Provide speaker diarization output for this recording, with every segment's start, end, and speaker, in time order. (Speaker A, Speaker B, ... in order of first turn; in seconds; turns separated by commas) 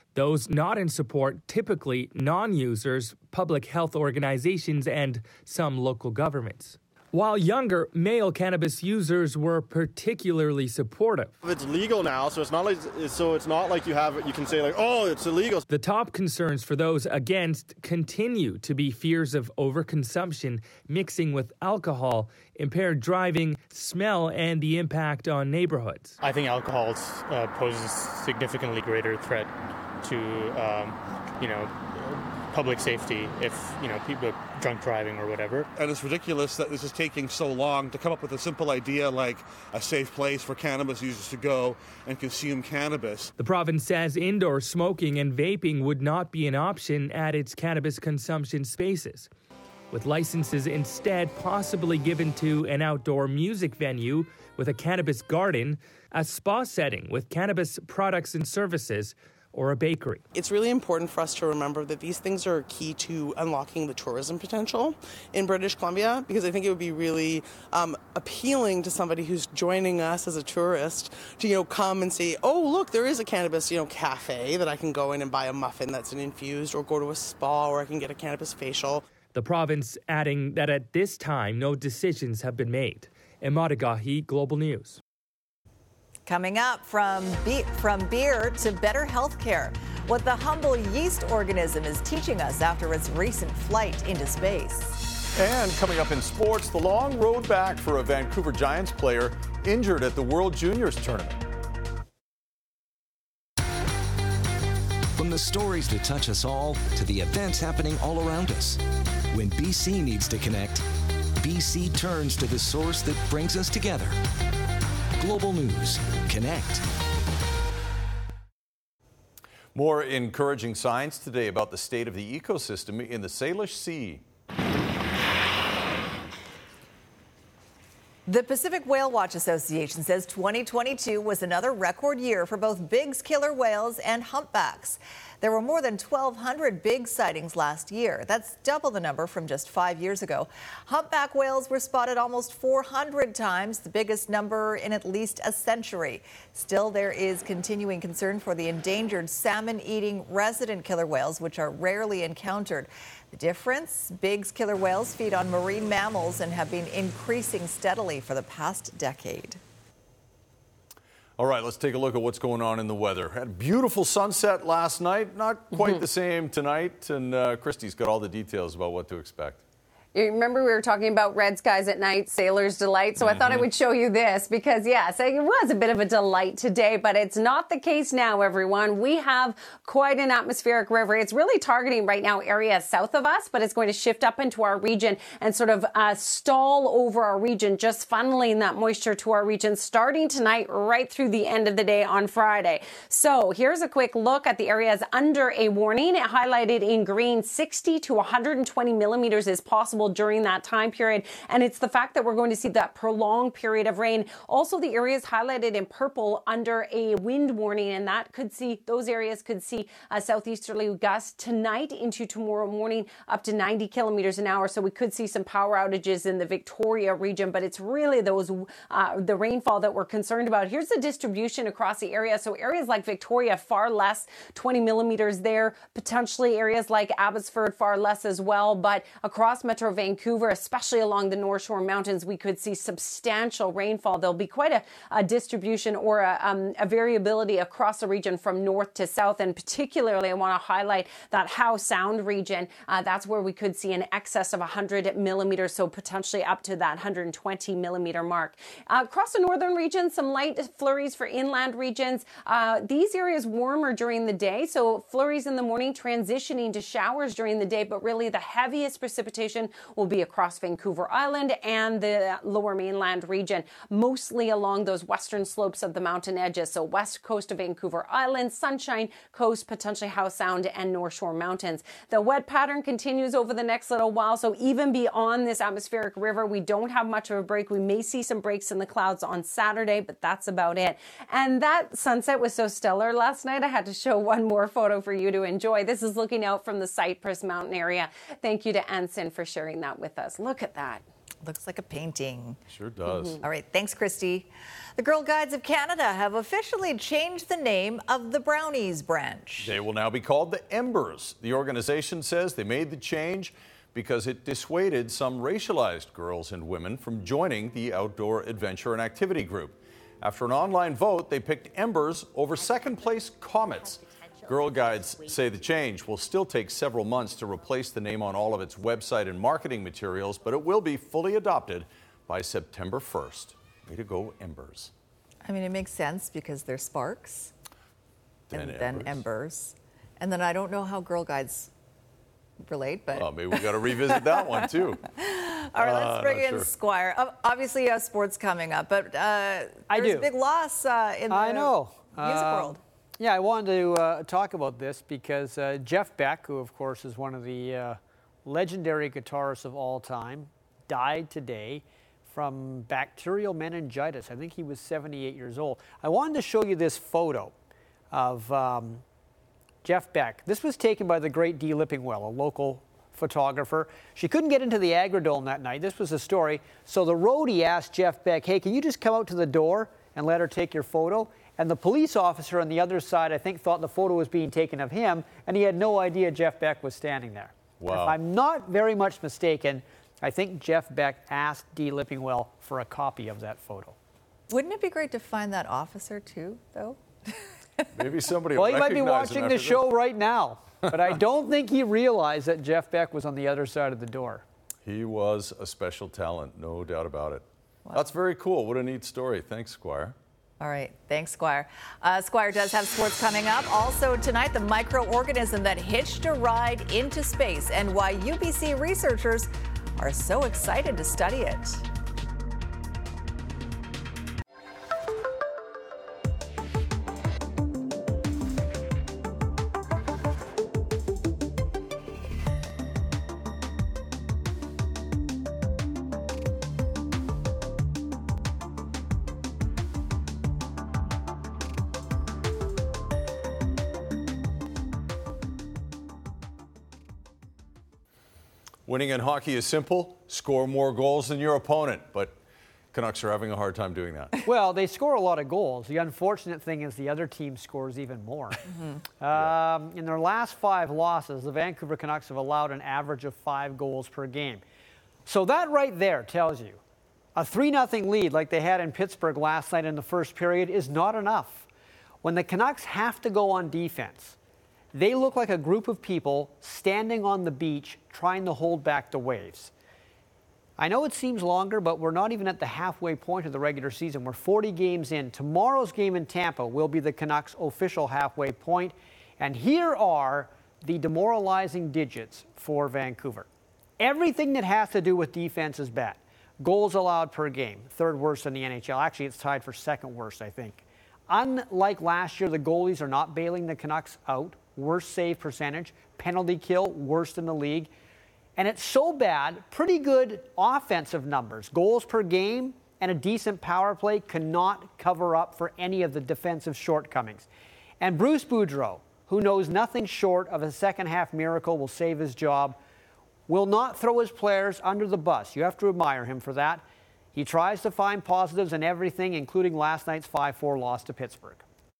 Speaker A: 0.1-11.3, Speaker B: 11.4-15.6, Speaker A: 15.7-26.2, Speaker C: 26.2-35.7, Speaker D: 35.8-43.3, Speaker A: 43.4-49.3, Speaker A: 49.9-60.2, Speaker E: 60.4-79.0, Speaker A: 79.3-85.0, Speaker F: 86.2-95.0, Speaker G: 95.4-101.4, Speaker H: 105.2-110.8, Speaker H: 111.4-114.2, Speaker H: 115.2-116.8, Speaker G: 119.7-124.2, Speaker F: 128.2-159.6, Speaker G: 161.4-169.6, Speaker I: 170.1-291.0, Speaker G: 173.2-173.7, Speaker F: 291.4-292.6, Speaker G: 292.7-293.4, Speaker F: 293.4-299.8, Speaker G: 299.6-324.9, Speaker F: 325.4-327.5, Speaker G: 328.5-329.2, Speaker F: 328.5-331.7, Speaker F: 332.6-333.3, Speaker G: 333.1-335.0, Speaker F: 334.1-342.8, Speaker G: 335.8-336.7, Speaker J: 339.9-340.3, Speaker J: 341.3-357.5, Speaker J: 358.1-359.0, Speaker J: 359.8-383.9, Speaker G: 377.8-378.2, Speaker F: 384.5-387.8, Speaker G: 387.9-389.9, Speaker J: 388.6-394.4, Speaker G: 390.8-391.1, Speaker G: 394.9-400.1, Speaker F: 400.6-411.8, Speaker G: 438.9-442.4, Speaker G: 442.9-444.4, Speaker J: 444.5-448.6, Speaker J: 449.2-454.6, Speaker G: 449.3-449.6, Speaker J: 455.2-456.8, Speaker J: 457.4-461.6, Speaker J: 462.2-464.4, Speaker J: 464.9-469.7, Speaker J: 470.8-483.5, Speaker J: 484.0-497.9, Speaker J: 498.6-507.5, Speaker J: 508.0-512.8, Speaker J: 513.5-516.8, Speaker J: 517.4-521.6